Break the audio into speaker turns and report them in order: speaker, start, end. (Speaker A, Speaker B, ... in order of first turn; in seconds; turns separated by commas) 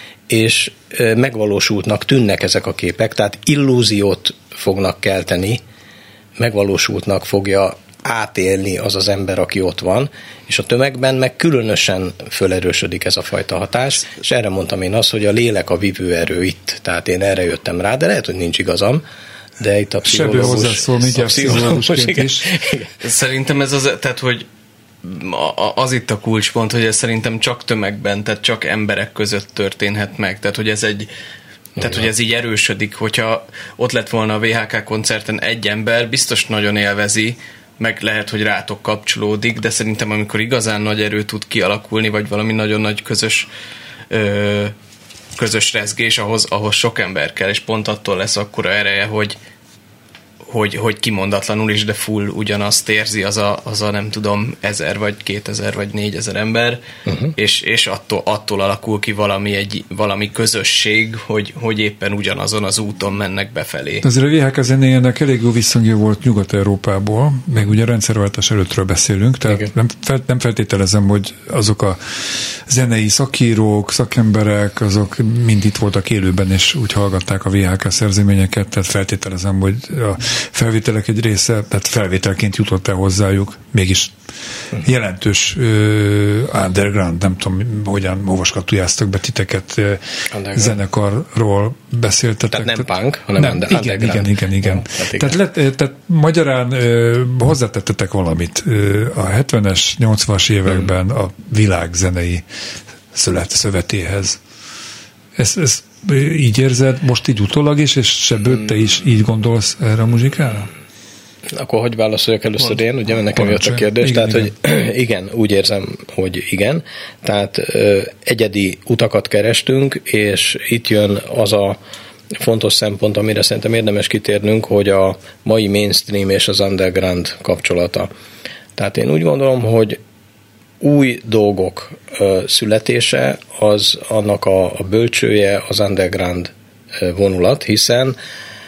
Speaker A: 0.3-5.6, Speaker A: 6.4-19.0, Speaker A: 19.6-22.9, Speaker B: 20.0-22.6, Speaker C: 23.0-24.5, Speaker C: 25.0-31.1, Speaker C: 31.8-43.5, Speaker C: 44.1-44.8, Speaker C: 45.4-49.4, Speaker C: 50.4-56.8, Speaker A: 57.1-57.3, Speaker C: 57.4-64.0, Speaker B: 64.0-84.1, Speaker B: 84.8-102.5, Speaker A: 90.3-90.8, Speaker A: 92.5-95.4, Speaker B: 103.1-104.4, Speaker B: 105.4-110.7, Speaker A: 111.5-121.8, Speaker B: 113.2-114.5, Speaker A: 122.4-128.1, Speaker A: 128.8-130.0, Speaker A: 130.8-138.2